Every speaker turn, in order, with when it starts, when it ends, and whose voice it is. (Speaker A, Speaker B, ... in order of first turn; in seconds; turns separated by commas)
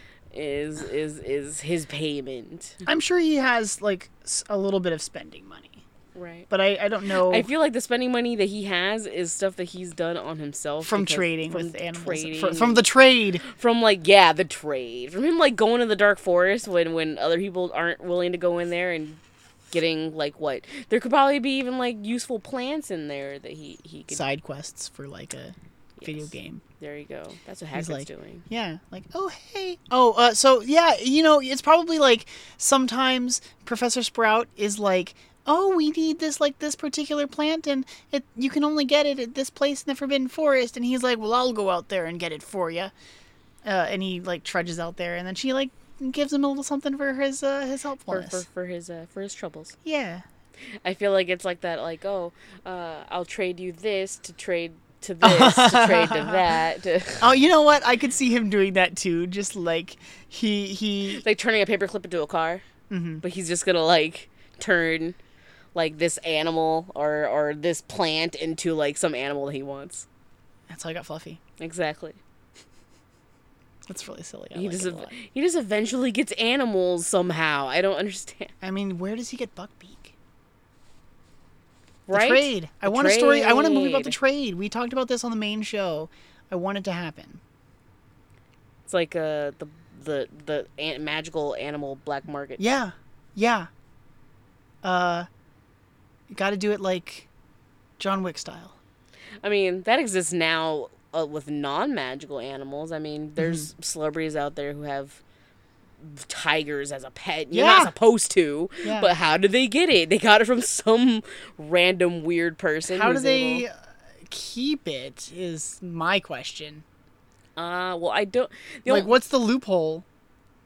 Speaker A: 0.3-2.8, Speaker B: 2.9-5.8, Speaker A: 6.2-6.5, Speaker B: 6.5-7.5, Speaker A: 7.2-12.9, Speaker B: 10.8-13.4, Speaker A: 13.4-19.2, Speaker A: 19.7-24.2, Speaker B: 24.1-26.6, Speaker A: 26.0-28.4, Speaker B: 27.7-42.9, Speaker B: 43.6-48.5, Speaker A: 48.1-49.8, Speaker B: 49.8-50.2, Speaker A: 50.8-57.3, Speaker B: 55.2-56.5, Speaker B: 57.2-61.2, Speaker A: 61.1-62.6, Speaker B: 62.9-63.2, Speaker A: 63.2-65.2, Speaker A: 65.8-70.1, Speaker B: 70.7-71.4, Speaker A: 71.6-72.2, Speaker B: 73.9-75.1, Speaker A: 74.5-78.5, Speaker B: 78.6-80.2, Speaker A: 82.1-84.2, Speaker B: 82.1-87.4, Speaker A: 88.9-92.6, Speaker B: 92.6-93.7, Speaker B: 94.8-95.3, Speaker B: 96.3-97.3, Speaker B: 98.0-98.8, Speaker A: 99.4-105.2, Speaker B: 103.4-103.7, Speaker A: 106.0-113.7, Speaker B: 107.5-107.9, Speaker B: 108.8-109.2, Speaker B: 112.9-113.7, Speaker B: 114.3-116.8, Speaker A: 117.6-119.1, Speaker B: 118.9-120.1